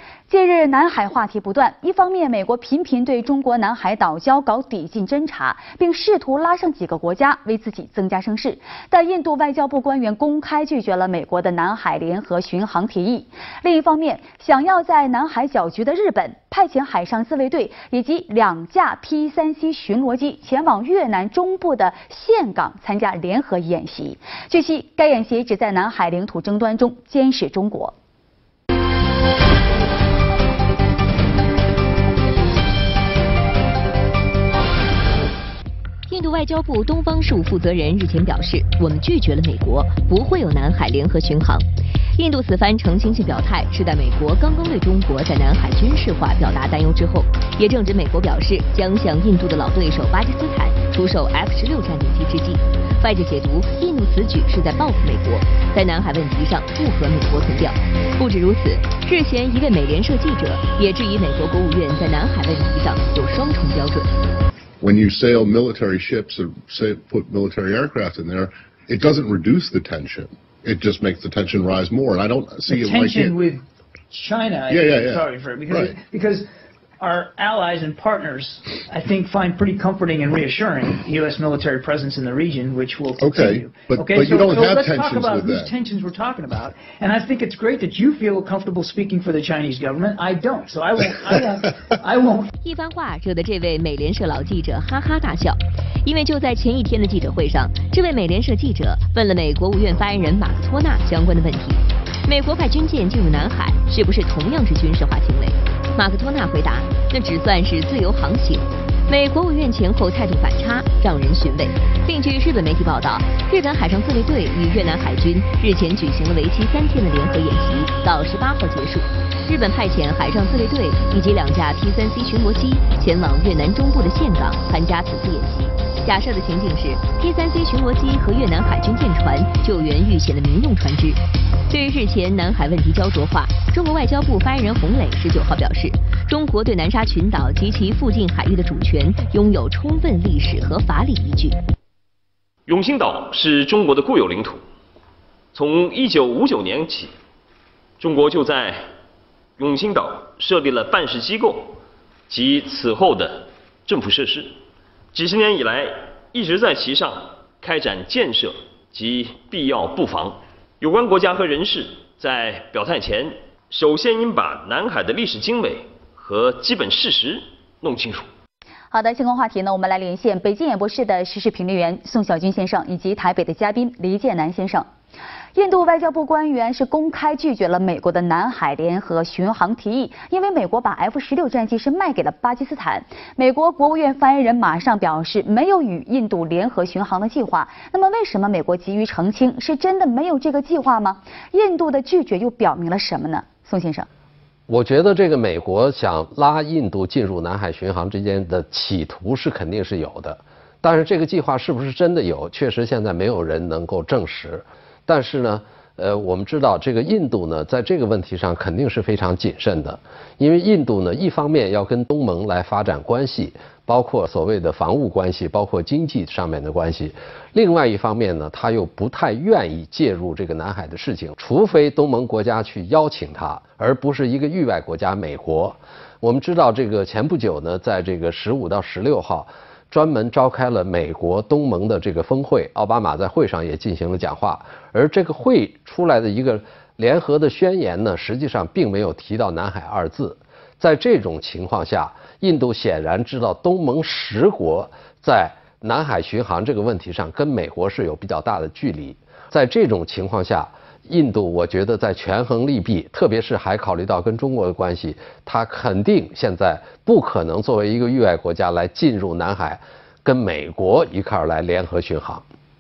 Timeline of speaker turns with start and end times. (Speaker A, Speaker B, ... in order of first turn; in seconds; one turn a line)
Speaker A: 0.3-27.9
Speaker B: 36.1-64.2
Speaker C: 64.8-73.4
Speaker D: 72.7-76.5
Speaker C: 74.7-76.0
Speaker D: 77.0-92.5
Speaker C: 83.2-85.7
Speaker B: 92.6-141.6
Speaker E: 142.7-144.6
Speaker E: 145.5-147.1
Speaker E: 148.0-148.8
Speaker E: 149.6-151.8
Speaker E: 152.3-154.6
Speaker E: 155.1-168.3
Speaker A: 168.9-174.9
Speaker A: 175.5-194.1
Speaker F: 194.7-262.4